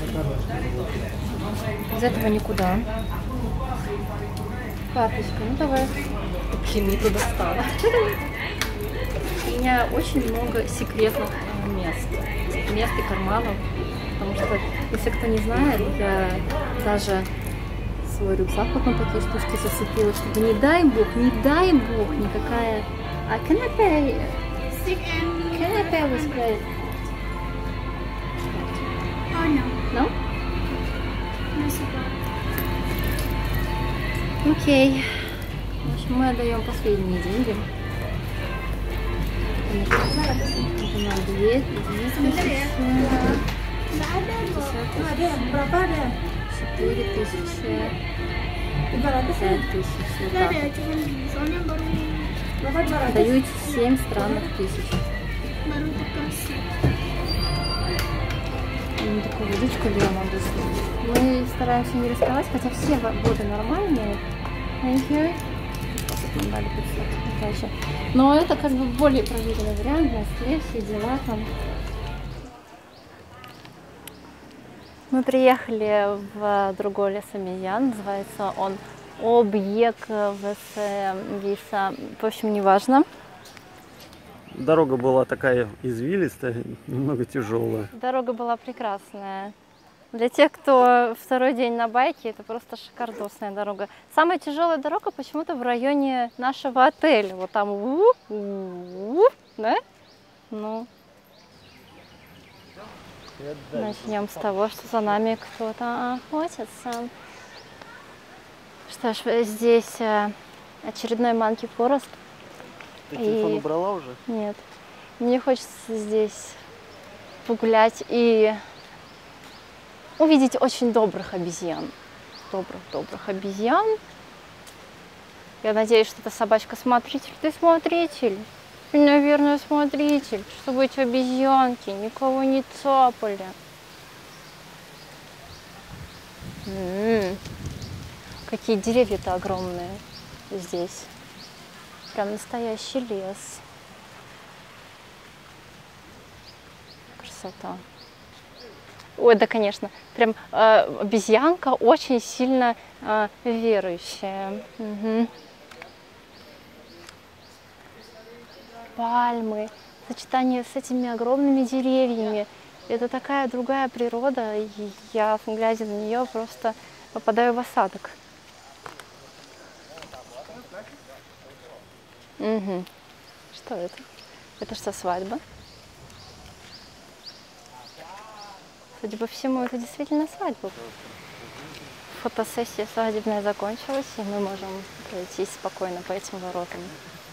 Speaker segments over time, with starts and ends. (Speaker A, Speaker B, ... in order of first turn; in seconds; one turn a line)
Speaker A: 0.2-0.7
Speaker B: 1.9-2.9
Speaker B: 4.9-6.0
Speaker B: 6.5-8.2
Speaker B: 9.4-13.6
Speaker B: 14.2-17.3
Speaker B: 18.0-24.4
Speaker C: 24.8-25.4
Speaker B: 25.3-26.8
Speaker B: 28.4-28.9
Speaker C: 29.4-29.7
Speaker C: 31.6-32.1
Speaker B: 34.4-37.7
Speaker B: 39.7-43.4
Speaker C: 43.9-44.4
Speaker B: 44.4-48.0
Speaker B: 49.0-50.8
Speaker C: 50.7-52.9
Speaker B: 52.9-55.1
Speaker C: 55.6-56.6
Speaker B: 59.0-64.2
Speaker B: 64.8-65.4
Speaker B: 66.0-71.5
Speaker B: 75.1-83.1
Speaker A: 84.5-87.9
Speaker B: 87.9-89.5
Speaker B: 90.1-99.8
Speaker B: 100.5-100.9
Speaker A: 103.4-105.0
Speaker B: 103.7-107.1
Speaker B: 108.9-112.2
Speaker A: 113.1-114.2
Speaker B: 113.2-113.6
Speaker B: 114.3-114.6
Speaker B: 115.2-116.6
Speaker B: 117.5-118.6
Speaker B: 120.2-121.9
Speaker B: 122.5-124.0
Speaker B: 125.6-133.6
Speaker B: 136.7-137.4
Speaker B: 138.5-141.1
Speaker B: 142.1-143.6
Speaker B: 147.2-147.8
Speaker B: 149.2-155.3
Speaker B: 159.0-168.2
Speaker B: 172.4-172.9
Speaker B: 173.5-174.1
Speaker B: 174.6-175.4
Speaker B: 179.0-180.8
Speaker A: 180.8-181.9
Speaker B: 182.2-186.9